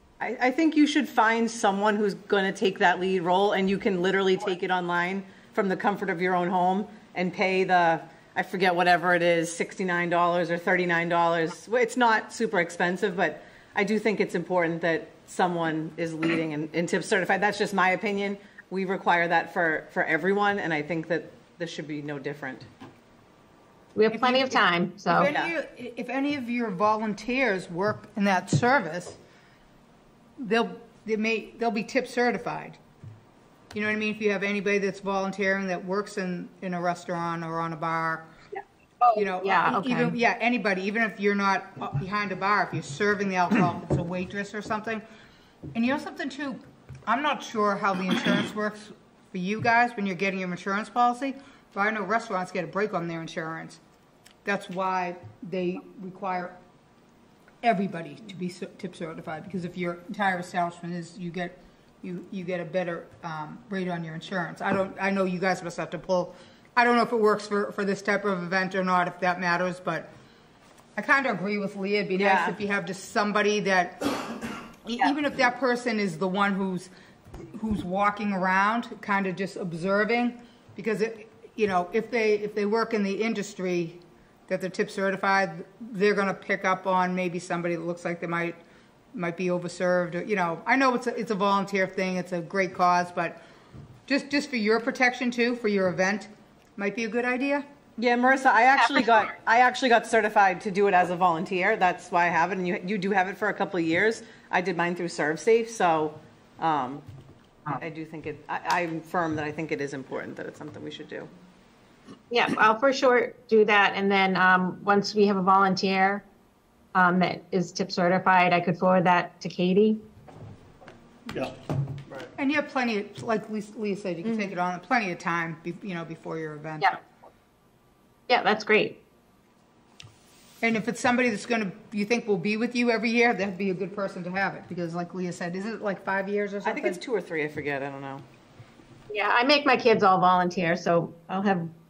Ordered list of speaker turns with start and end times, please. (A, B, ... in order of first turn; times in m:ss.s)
0:00.2-0:22.7 A
0:24.0-0:25.3 B
0:24.1-0:29.2 C
0:25.2-0:25.5 A
0:30.4-0:32.8 C
0:33.7-0:38.3 C
0:38.6-0:40.2 B
0:39.2-0:45.0 C
0:45.8-0:53.8 C
0:54.4-0:56.6 C
0:57.6-1:10.1 C
1:11.0-1:14.3 C
1:12.2-1:12.6 A
1:14.8-1:16.9 C
1:17.5-1:28.6 C
1:29.1-1:33.4 C
1:34.1-1:37.7 C
1:38.0-1:47.1 A
1:38.8-1:39.2 B
1:47.8-1:51.3 A
1:52.3-1:56.2 B
1:57.0-2:00.0 B
2:02.4-2:07.0 C
2:08.3-2:09.0 B
2:10.6-2:17.0 C
2:16.6-2:18.2 A
2:19.1-2:21.7 B